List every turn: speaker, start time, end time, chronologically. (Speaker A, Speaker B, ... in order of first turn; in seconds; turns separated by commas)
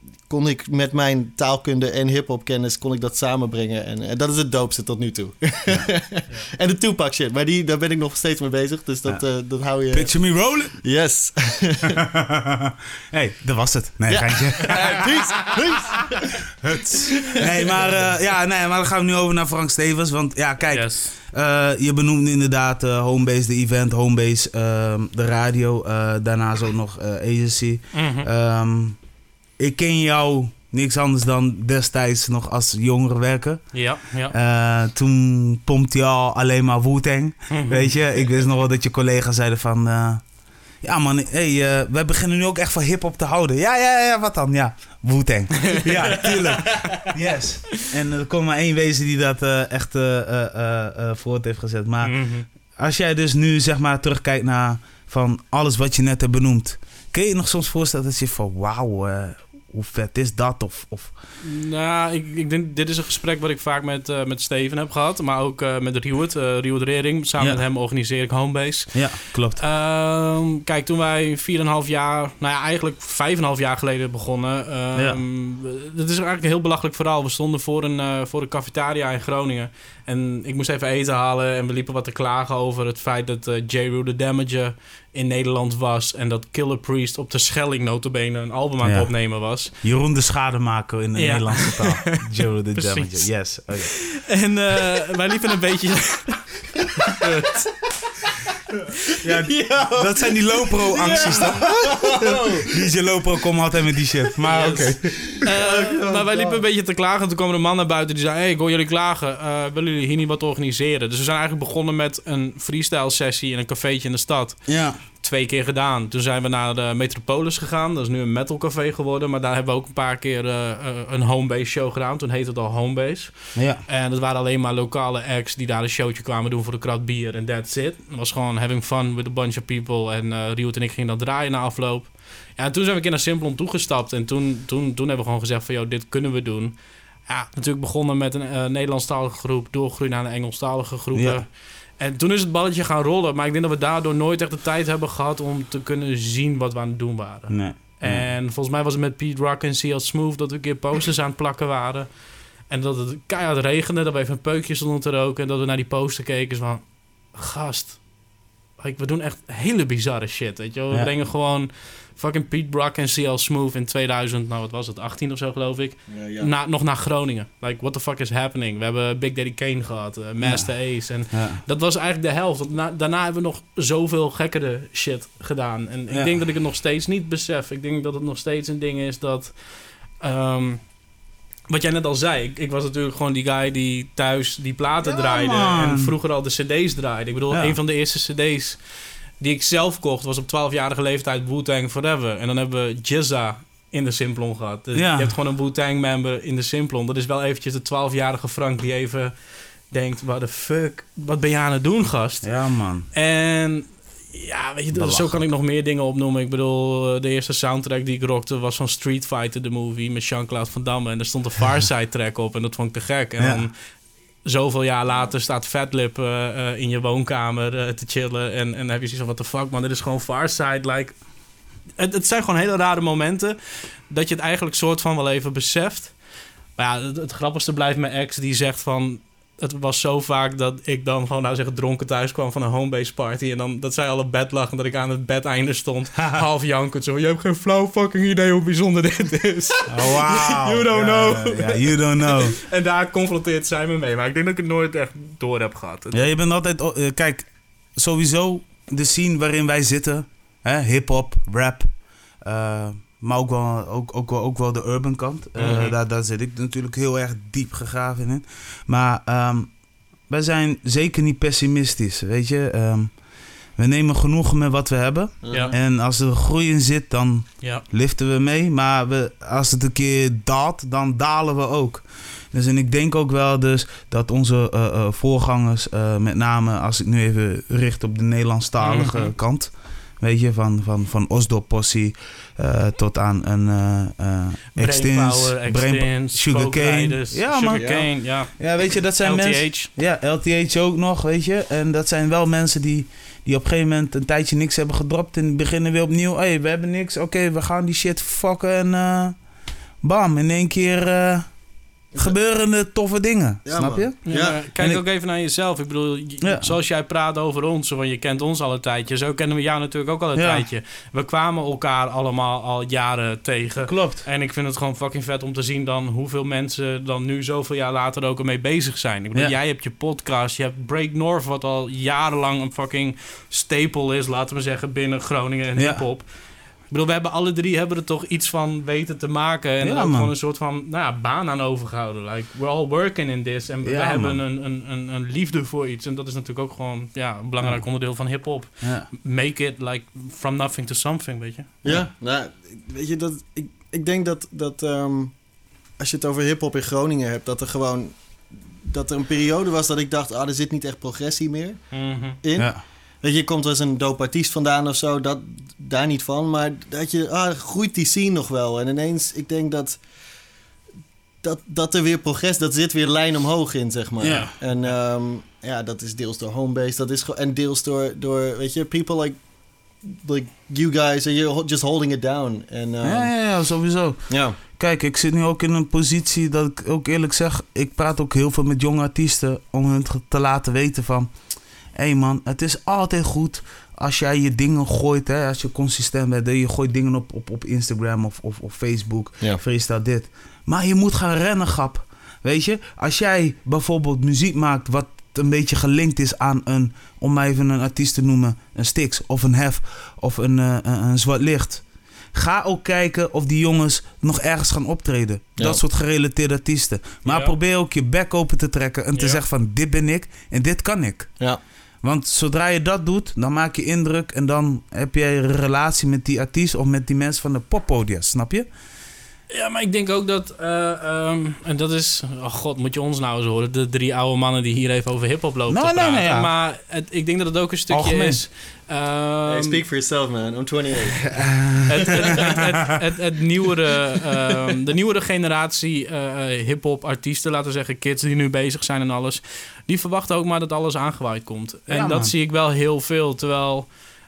Speaker A: 0.3-10.2, Speaker B: 9.9-10.8, Speaker A: 10.8-12.0, Speaker B: 12.0-15.1, Speaker A: 14.1-17.5, Speaker B: 16.6-29.0, Speaker C: 20.7-21.1, Speaker C: 27.9-28.3, Speaker B: 29.6-33.8, Speaker C: 33.7-34.3, Speaker B: 34.3-40.2, Speaker C: 37.5-37.9, Speaker B: 40.8-61.1, Speaker C: 45.7-47.1, Speaker C: 52.0-52.5, Speaker C: 61.4-89.7, Speaker B: 68.9-69.6, Speaker B: 88.8-94.0, Speaker C: 91.2-97.7, Speaker B: 99.2-105.3, Speaker A: 99.2-102.9, Speaker C: 101.0-101.6, Speaker A: 104.4-106.6, Speaker C: 105.4-158.0, Speaker B: 114.7-115.0, Speaker B: 123.5-123.8, Speaker B: 141.1-141.4, Speaker B: 147.5-148.3, Speaker C: 158.8-181.0, Speaker A: 166.1-166.5, Speaker B: 170.4-171.6, Speaker C: 181.7-188.8, Speaker B: 185.1-186.1, Speaker B: 187.5-187.8, Speaker C: 189.4-199.4, Speaker B: 194.9-195.3, Speaker C: 199.9-202.5, Speaker B: 202.4-203.1, Speaker C: 203.1-213.7, Speaker B: 204.9-205.4, Speaker B: 213.4-213.7, Speaker C: 214.4-221.2, Speaker C: 222.0-226.2, Speaker C: 226.8-246.3, Speaker B: 239.9-242.6, Speaker B: 246.1-251.9, Speaker B: 252.4-259.7, Speaker C: 255.6-255.9, Speaker B: 260.3-263.2, Speaker B: 263.8-299.4, Speaker A: 265.4-265.8, Speaker C: 278.8-279.3, Speaker C: 284.8-289.9, Speaker A: 287.7-288.1, Speaker B: 300.0-301.5, Speaker B: 302.2-305.0, Speaker A: 303.6-304.6, Speaker C: 304.2-326.3, Speaker B: 306.4-306.7, Speaker B: 310.4-310.6, Speaker B: 313.9-314.2, Speaker B: 325.8-326.0, Speaker C: 326.9-341.8, Speaker B: 329.8-330.3, Speaker B: 333.8-334.4, Speaker B: 338.8-339.1, Speaker A: 341.8-345.3, Speaker A: 346.0-348.1, Speaker A: 348.8-351.8, Speaker C: 351.9-352.4, Speaker A: 352.4-360.0, Speaker A: 361.4-369.4, Speaker B: 364.2-364.5, Speaker C: 364.3-364.5, Speaker A: 370.0-373.3, Speaker B: 373.0-381.3, Speaker A: 374.3-374.6, Speaker B: 381.9-411.4, Speaker C: 407.2-407.5, Speaker C: 409.1-409.4, Speaker B: 412.0-418.7, Speaker C: 419.5-429.8, Speaker B: 425.7-426.5, Speaker B: 427.9-428.4, Speaker A: 429.5-431.4, Speaker B: 431.2-432.6, Speaker C: 431.9-443.9, Speaker B: 441.9-442.3